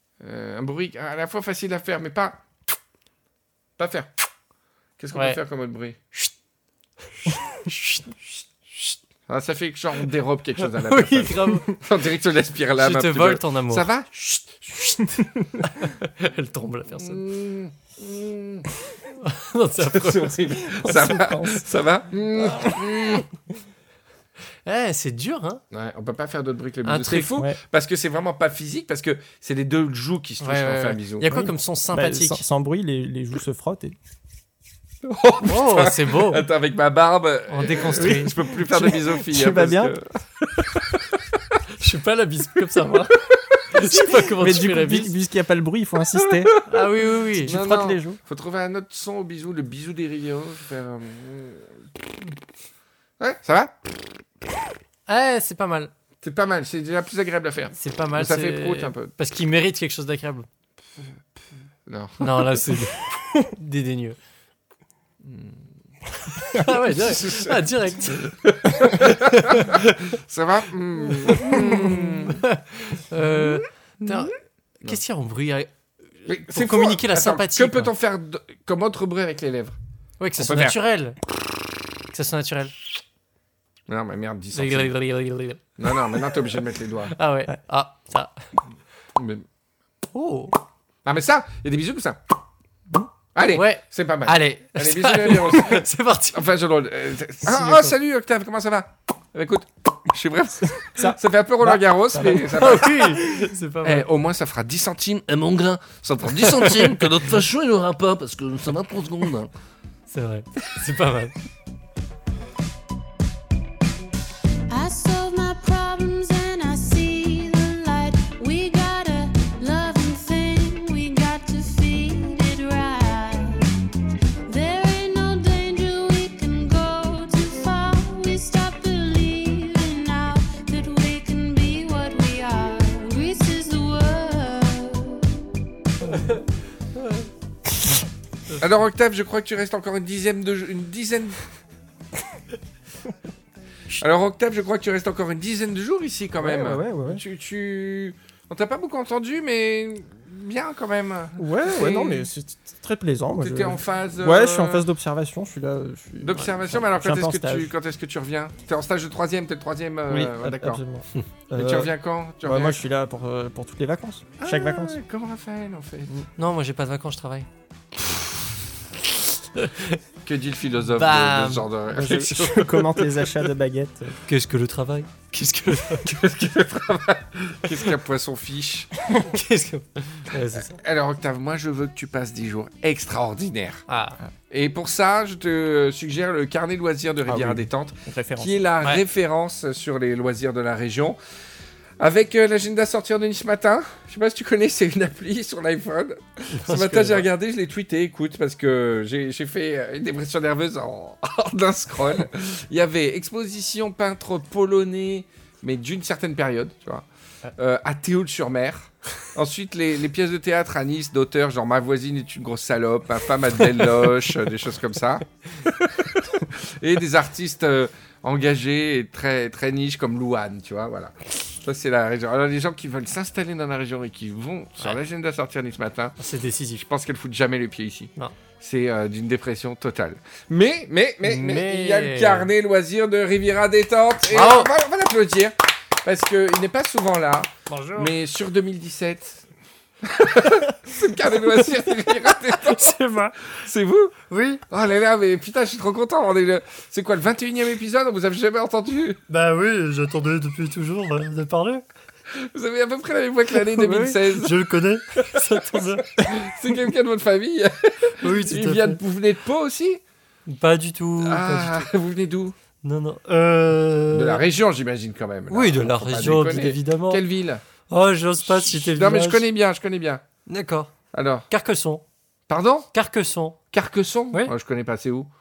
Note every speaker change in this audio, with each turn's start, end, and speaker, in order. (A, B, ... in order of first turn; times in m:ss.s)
0:00.2-0:02.4 A
0:03.8-0:04.1 A
0:05.0-0:06.0 A
0:05.1-0:05.4 B
0:07.3-0:08.1 B
0:09.3-0:15.5 A
0:10.6-0:11.8 B
0:12.8-0:13.9 B
0:15.6-0:17.2 B
0:17.0-0:18.7 A
0:19.1-0:20.4 B
0:19.8-0:23.3 A
0:20.8-0:21.7 C
0:24.7-0:25.6 B
0:25.7-0:31.2 A
0:26.8-0:27.4 B
0:30.4-0:32.4 B
0:31.3-0:34.0 C
0:35.0-0:41.6 A
0:35.4-0:36.4 B
0:37.5-0:38.4 B
0:38.0-0:40.0 C
0:41.8-0:43.2 B
0:43.3-0:43.6 A
0:43.7-0:45.1 B
0:43.8-0:46.6 C
0:46.2-0:46.8 A
0:46.7-0:47.6 B
0:47.4-0:51.8 A
0:47.4-0:48.2 C
0:53.2-0:54.5 A
0:55.1-0:55.9 B
0:56.2-0:59.1 A
0:57.8-1:00.5 B
1:01.9-1:02.6 A
1:02.2-1:04.2 B
1:05.2-1:05.7 A
1:06.3-1:09.8 B
1:06.6-1:12.4 A
1:11.2-1:15.7 B
1:16.2-1:17.9 B
1:16.3-1:19.8 A
1:20.2-1:21.2 B
1:20.4-1:20.8 A
1:22.1-1:22.8 B
1:23.9-1:24.9 A
1:24.5-1:26.4 B
1:25.8-1:27.1 A
1:27.1-1:28.4 B
1:29.1-1:29.4 A
1:30.1-1:30.6 B
1:31.0-1:32.2 A
1:33.4-1:43.2 A
1:33.5-1:36.5 B
1:37.4-1:37.9 B
1:41.0-1:42.6 C
1:42.5-1:44.1 B
1:43.8-1:45.3 A
1:45.2-1:49.5 D
1:46.3-1:47.0 A
1:50.1-1:51.4 B
1:54.7-2:03.7 E
2:04.5-2:15.3 E
2:18.6-2:21.4 A
2:24.0-2:32.3 A
2:26.4-2:27.2 C
2:31.4-2:37.7 C
2:33.4-2:34.9 A
2:36.2-2:40.8 A
2:40.1-2:45.0 C
2:41.5-2:42.8 A
2:44.4-2:46.1 A
2:46.4-2:47.5 B
2:49.6-2:50.0 B
2:50.2-2:52.5 A
2:50.9-2:51.7 B
2:51.9-2:54.2 C
2:52.4-2:52.7 B
2:54.3-2:56.3 B
2:56.1-2:58.9 A
2:59.1-3:00.8 B
3:00.5-3:03.8 A
3:03.9-3:04.2 B
3:04.5-3:11.2 A
3:07.3-3:08.6 C
3:12.0-3:46.2 A
3:16.5-3:17.3 B
3:46.2-3:46.8 B
3:46.8-3:59.5 A
3:51.2-3:52.5 B
3:54.3-3:54.7 B
3:57.7-3:58.1 B
4:00.0-4:03.0 A
4:02.5-4:03.5 B
4:03.5-4:04.1 A
4:04.3-4:04.6 B
4:04.7-4:09.2 A
4:09.3-4:11.8 B
4:12.3-4:14.6 A
4:13.8-4:16.1 B
4:15.6-4:20.0 A
4:18.2-4:19.0 B
4:20.4-4:21.9 B
4:21.2-4:22.6 A
4:22.8-4:24.4 B
4:24.1-4:27.6 A
4:25.5-4:27.2 B
4:27.9-4:29.4 B
4:28.4-4:30.2 A
4:30.4-4:30.9 B
4:31.1-4:31.5 A
4:31.5-4:32.0 B
4:32.5-4:32.9 A
4:32.9-4:33.6 B
4:33.7-4:35.3 A